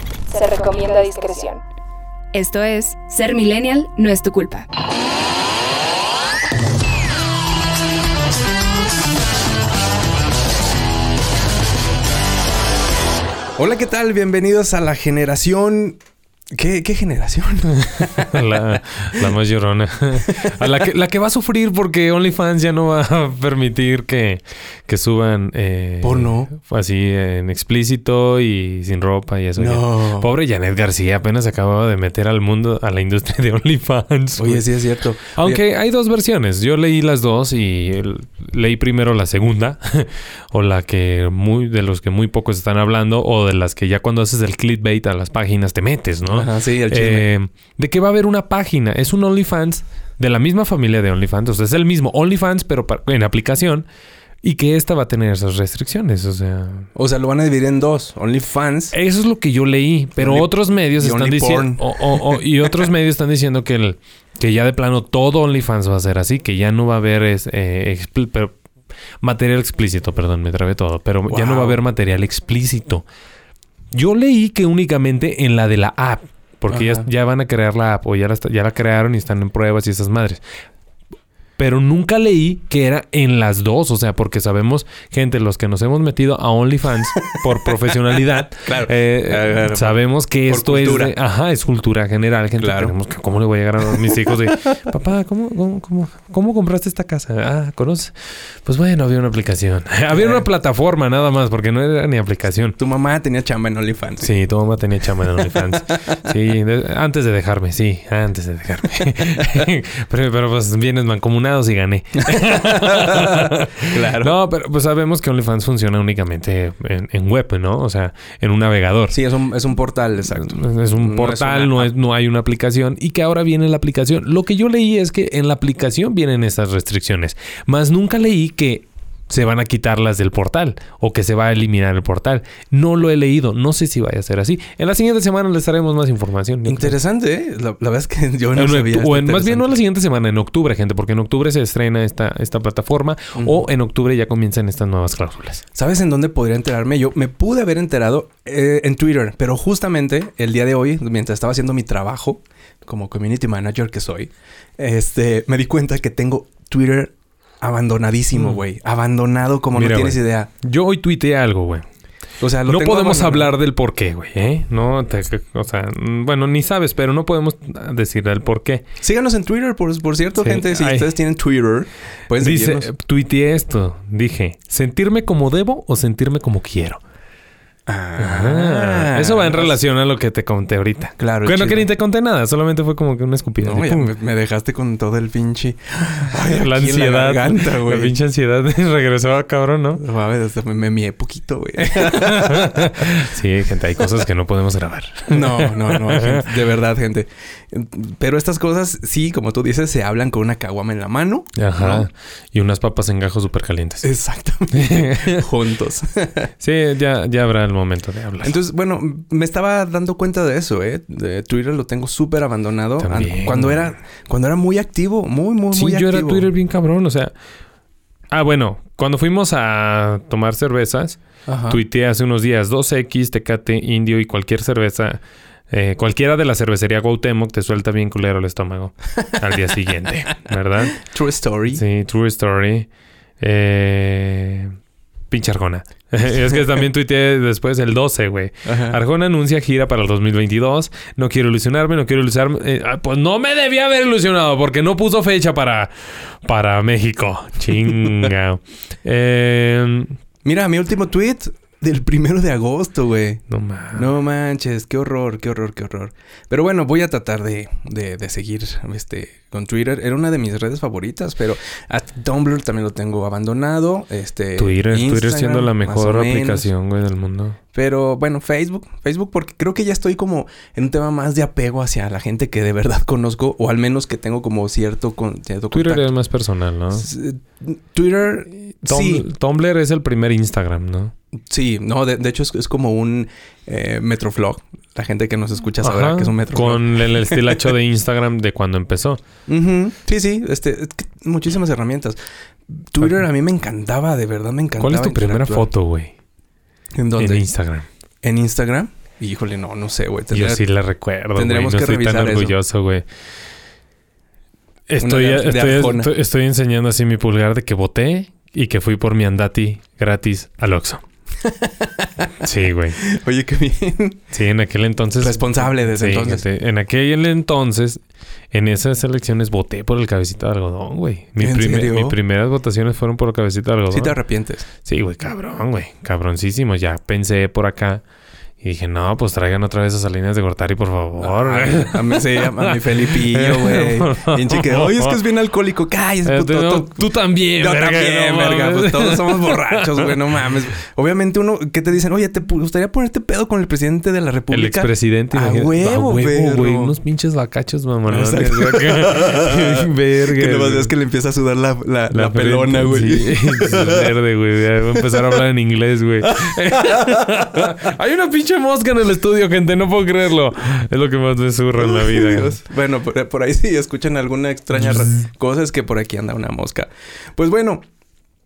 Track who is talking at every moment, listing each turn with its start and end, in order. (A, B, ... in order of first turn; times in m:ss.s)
0:00.3-0:01.6 A
0:02.3-0:04.7 A
0:13.6-0:16.0 B
0:16.5-0:18.7 B
0:17.8-0:34.6 C
0:20.3-0:20.6 B
0:26.0-0:26.5 B
0:29.6-0:30.3 B
0:34.4-0:35.6 B
0:35.3-0:53.9 C
0:46.3-0:47.3 B
0:54.4-0:56.9 C
0:57.0-0:59.0 B
0:58.9-1:08.6 C
1:00.2-1:02.7 B
1:09.2-1:13.1 C
1:11.3-1:11.8 B
1:13.9-1:20.4 C
1:16.7-1:17.1 B
1:21.6-1:42.8 C
1:27.2-1:27.4 B
1:28.5-1:31.1 B
1:32.6-1:32.9 B
1:40.1-1:40.4 B
1:42.8-1:44.3 B
1:44.2-1:59.2 C
1:45.4-1:46.2 B
1:52.2-1:54.3 B
1:59.1-2:01.9 B
2:00.3-2:17.0 C
2:16.7-2:19.7 B
2:18.5-2:25.6 C
2:23.4-2:23.6 B
2:25.8-2:40.5 B
2:38.3-2:38.6 C
2:39.7-2:41.8 C
2:42.4-2:43.5 B
2:42.6-2:48.8 C
2:49.0-2:52.9 B
2:50.4-2:51.1 C
2:52.4-2:57.0 C
2:57.9-2:59.8 B
2:58.2-3:04.1 C
3:01.2-3:01.9 B
3:03.6-3:08.2 B
3:06.4-3:10.0 C
3:10.0-3:13.2 B
3:11.9-3:16.6 C
3:15.3-3:22.1 B
3:21.5-3:24.0 C
3:24.0-3:26.5 B
3:24.7-3:25.5 C
3:26.6-3:28.6 C
3:28.4-3:36.5 B
3:33.0-3:33.8 C
3:35.7-3:37.3 C
3:38.3-3:51.0 C
3:41.5-3:41.8 B
3:50.9-3:51.8 B
3:51.8-3:52.9 C
3:53.4-3:54.8 C
3:55.3-4:10.2 C
3:58.6-3:59.0 B
4:10.4-4:13.4 B
4:13.5-4:14.1 C
4:14.0-4:26.7 B
4:24.6-4:27.6 C
4:27.7-4:36.1 B
4:35.7-4:37.1 C
4:36.9-4:39.2 B
4:38.8-4:41.1 C
4:41.5-4:47.7 B
4:45.8-4:49.2 C
4:49.5-4:52.2 B
4:52.8-4:55.7 B
4:54.8-4:56.1 C
4:56.9-4:57.4 B
4:57.2-4:57.9 C
4:58.2-5:00.6 B
5:00.3-5:03.0 C
5:01.3-5:02.5 B
5:04.9-5:11.0 C
5:05.0-5:06.1 B
5:11.4-5:12.3 B
5:12.4-5:13.0 C
5:13.0-5:14.2 B
5:14.3-5:24.2 C
5:15.2-5:16.4 B
5:21.4-5:22.2 B
5:23.9-5:24.7 B
5:24.8-5:28.0 C
5:28.6-5:35.2 C
5:31.2-5:46.9 B
5:36.2-5:40.5 C
5:44.5-5:50.9 C
5:48.1-5:54.1 B
5:52.1-6:02.6 C
5:56.3-5:57.3 B
6:01.8-6:07.8 B